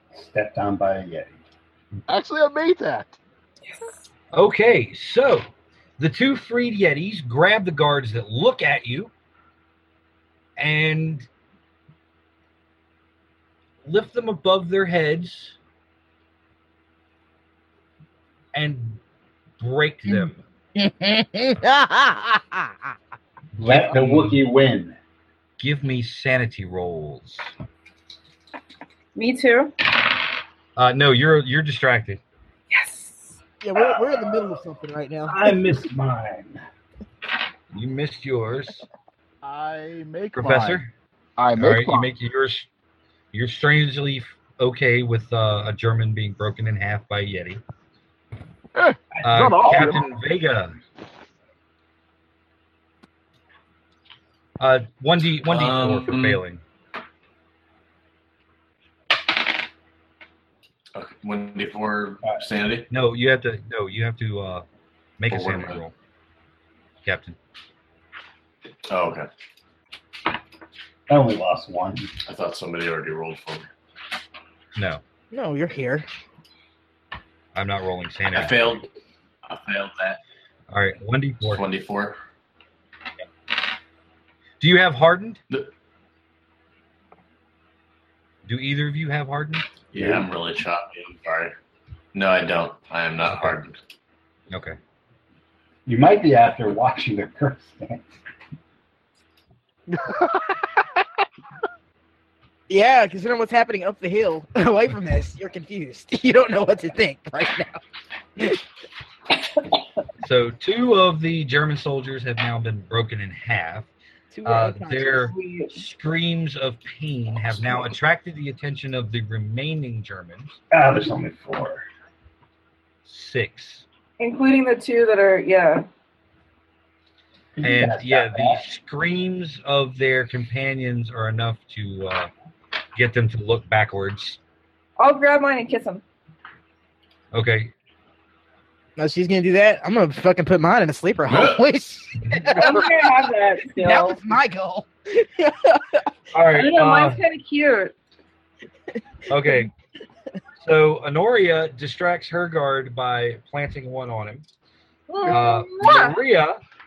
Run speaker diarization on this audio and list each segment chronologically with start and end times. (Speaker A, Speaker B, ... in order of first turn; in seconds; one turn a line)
Speaker A: 0.1-1.4
Speaker B: 2.1-3.2
Speaker C: 3.6-4.1
Speaker D: 4.3-5.5
Speaker D: 6.0-9.1
Speaker D: 10.6-11.3
Speaker D: 13.8-15.6
Speaker D: 18.5-19.0
Speaker D: 19.6-20.4
Speaker E: 20.8-22.7
Speaker A: 23.6-25.0
Speaker D: 23.6-24.4
Speaker D: 25.6-27.5
Speaker C: 29.1-29.7
Speaker D: 30.8-32.2
Speaker C: 32.7-33.4
Speaker E: 33.6-35.4
Speaker B: 33.9-34.4
Speaker A: 35.3-36.6
Speaker D: 37.7-38.8
Speaker B: 39.4-40.8
Speaker D: 40.3-40.9
Speaker B: 41.4-42.1
Speaker D: 41.5-42.7
Speaker D: 43.3-47.6
Speaker B: 48.7-50.0
Speaker D: 49.2-50.8
Speaker D: 54.6-56.6
Speaker F: 55.5-56.4
Speaker F: 60.9-62.9
Speaker D: 62.9-64.6
Speaker D: 65.2-65.9
Speaker F: 65.3-65.8
Speaker D: 67.0-67.3
Speaker F: 68.9-69.3
Speaker A: 71.1-72.1
Speaker F: 72.2-73.7
Speaker D: 74.8-75.0
Speaker E: 75.3-76.0
Speaker D: 77.5-78.8
Speaker F: 78.3-78.9
Speaker F: 79.5-80.2
Speaker D: 80.7-81.6
Speaker F: 81.4-82.2
Speaker D: 84.6-85.4
Speaker D: 88.5-89.7
Speaker F: 89.9-91.5
Speaker A: 90.0-90.2
Speaker F: 92.1-93.8
Speaker D: 93.2-93.6
Speaker D: 94.5-94.8
Speaker A: 95.8-98.1
Speaker B: 99.9-100.6
Speaker E: 102.7-107.8
Speaker D: 110.2-113.9
Speaker E: 114.3-115.3
Speaker D: 114.4-120.6
Speaker C: 115.3-115.7
Speaker A: 120.7-121.8
Speaker D: 123.0-123.8
Speaker C: 124.2-125.8
Speaker A: 127.5-128.6
Speaker D: 127.6-132.3
Speaker D: 132.9-134.4
Speaker C: 135.0-136.0
Speaker D: 137.3-137.7
Speaker E: 139.0-142.9
Speaker F: 141.3-141.6
Speaker C: 142.6-144.2
Speaker E: 143.8-146.1
Speaker D: 146.3-147.2
Speaker C: 146.5-147.9
Speaker D: 149.3-149.7
Speaker D: 150.6-154.4
Speaker C: 155.1-156.2
Speaker D: 155.2-156.6